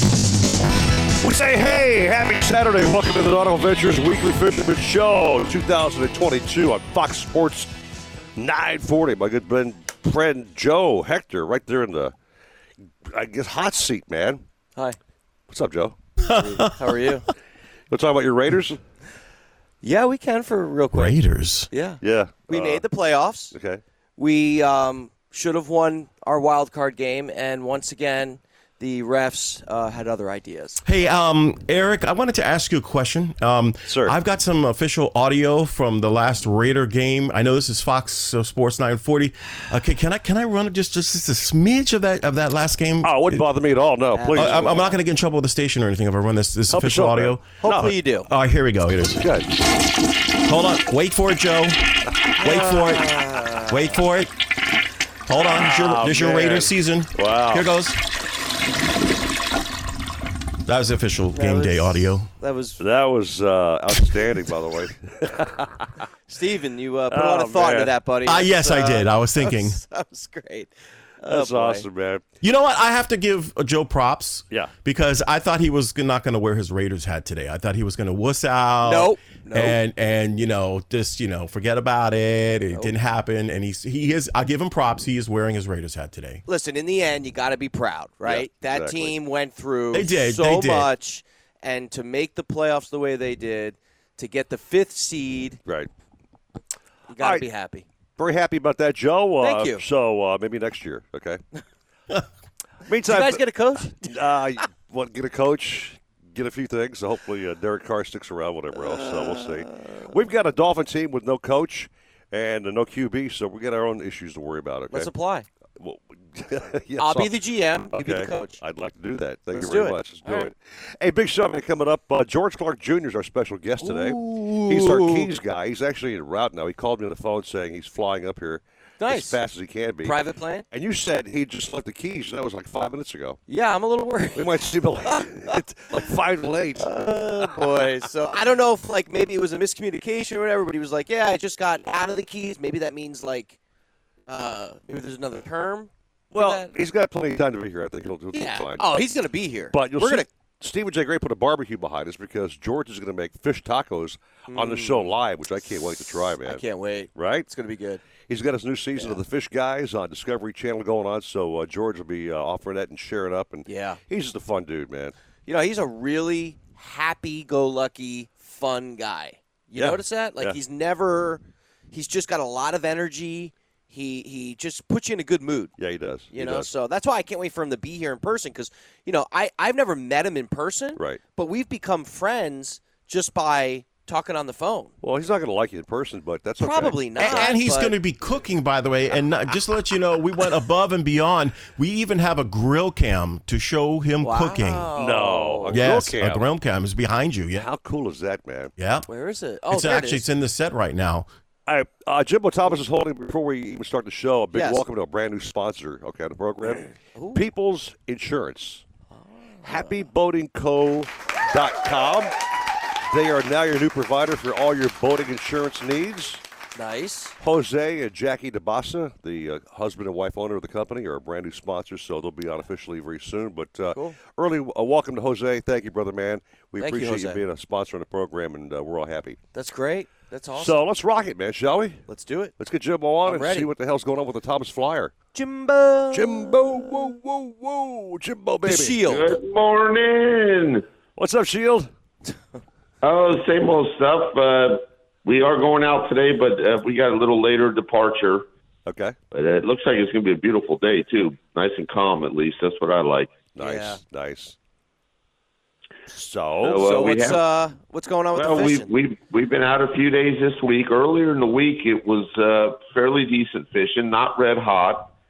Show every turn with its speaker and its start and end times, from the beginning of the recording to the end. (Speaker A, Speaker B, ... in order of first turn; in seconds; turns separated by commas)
Speaker A: 1.2-7.7, Speaker A: 8.4-12.2, Speaker A: 13.0-14.4, Speaker A: 15.5-16.0, Speaker B: 16.2-16.7, Speaker C: 16.4-17.2, Speaker A: 17.9-18.8, Speaker C: 19.8-21.2, Speaker B: 20.9-21.7, Speaker C: 21.7-23.6, Speaker A: 22.0-22.8, Speaker A: 23.5-23.8, Speaker C: 24.2-30.8, Speaker B: 30.8-43.4, Speaker A: 33.9-34.2, Speaker A: 43.0-44.9, Speaker C: 44.1-45.0, Speaker B: 44.4-49.3, Speaker A: 46.7-47.9, Speaker C: 47.6-48.3, Speaker A: 49.2-49.5, Speaker B: 50.4-51.8, Speaker C: 52.4-53.9, Speaker B: 52.4-53.1, Speaker B: 53.7-54.3, Speaker B: 55.3-58.0, Speaker A: 55.5-57.7, Speaker B: 60.7-62.3, Speaker C: 61.3-62.8, Speaker A: 62.8-65.7, Speaker C: 66.3-71.9, Speaker A: 67.1-67.9, Speaker B: 68.2-69.8, Speaker A: 71.3-72.3, Speaker B: 72.4-86.4, Speaker C: 78.8-79.8, Speaker C: 86.5-95.6, Speaker A: 88.2-89.2, Speaker B: 89.9-90.9, Speaker A: 95.7-95.9, Speaker C: 97.1-97.9, Speaker A: 97.2-97.5, Speaker A: 98.2-101.4, Speaker C: 99.4-99.8, Speaker A: 102.9-115.1, Speaker C: 103.1-104.1, Speaker C: 108.9-110.0, Speaker C: 114.9-115.5, Speaker A: 115.8-117.4, Speaker C: 117.0-118.6, Speaker A: 117.9-130.2, Speaker C: 119.5-120.5, Speaker C: 123.8-125.3, Speaker C: 129.0-129.4, Speaker C: 130.0-130.7, Speaker A: 130.7-133.4, Speaker C: 133.5-134.5, Speaker A: 134.3-137.6, Speaker C: 135.0-135.6, Speaker C: 136.8-143.6, Speaker C: 144.3-146.7, Speaker A: 146.3-148.8, Speaker C: 148.3-150.3, Speaker A: 149.7-156.6, Speaker C: 154.5-155.1, Speaker C: 156.5-158.0, Speaker A: 157.2-157.5, Speaker A: 158.3-165.2, Speaker C: 159.0-159.2, Speaker C: 163.7-164.0, Speaker C: 165.5-175.7, Speaker A: 169.8-170.6, Speaker A: 175.8-176.7, Speaker C: 176.3-184.9, Speaker A: 185.0-187.6, Speaker C: 186.6-188.0, Speaker B: 187.2-194.9, Speaker C: 194.2-195.8, Speaker A: 195.0-196.4, Speaker B: 195.7-197.7, Speaker A: 197.5-198.7, Speaker B: 198.8-199.1, Speaker C: 199.1-200.2, Speaker B: 199.7-201.3, Speaker A: 201.7-208.8, Speaker C: 204.5-204.8, Speaker C: 207.2-207.4, Speaker C: 209.1-210.0, Speaker A: 209.6-212.3, Speaker A: 213.1-216.4, Speaker C: 216.8-217.4, Speaker A: 217.4-229.4, Speaker C: 226.8-227.4, Speaker C: 229.5-230.8, Speaker A: 230.6-232.0, Speaker C: 232.1-232.5, Speaker A: 232.6-235.1, Speaker C: 233.2-233.7, Speaker C: 235.3-236.9, Speaker A: 236.1-239.4, Speaker C: 238.6-239.4, Speaker D: 239.1-240.8, Speaker A: 241.2-241.9, Speaker D: 243.0-248.5, Speaker A: 248.9-249.2, Speaker D: 249.3-253.4, Speaker A: 253.6-254.6, Speaker C: 253.6-254.0, Speaker A: 256.1-257.1, Speaker D: 256.6-257.4, Speaker C: 256.6-258.9, Speaker D: 258.3-265.1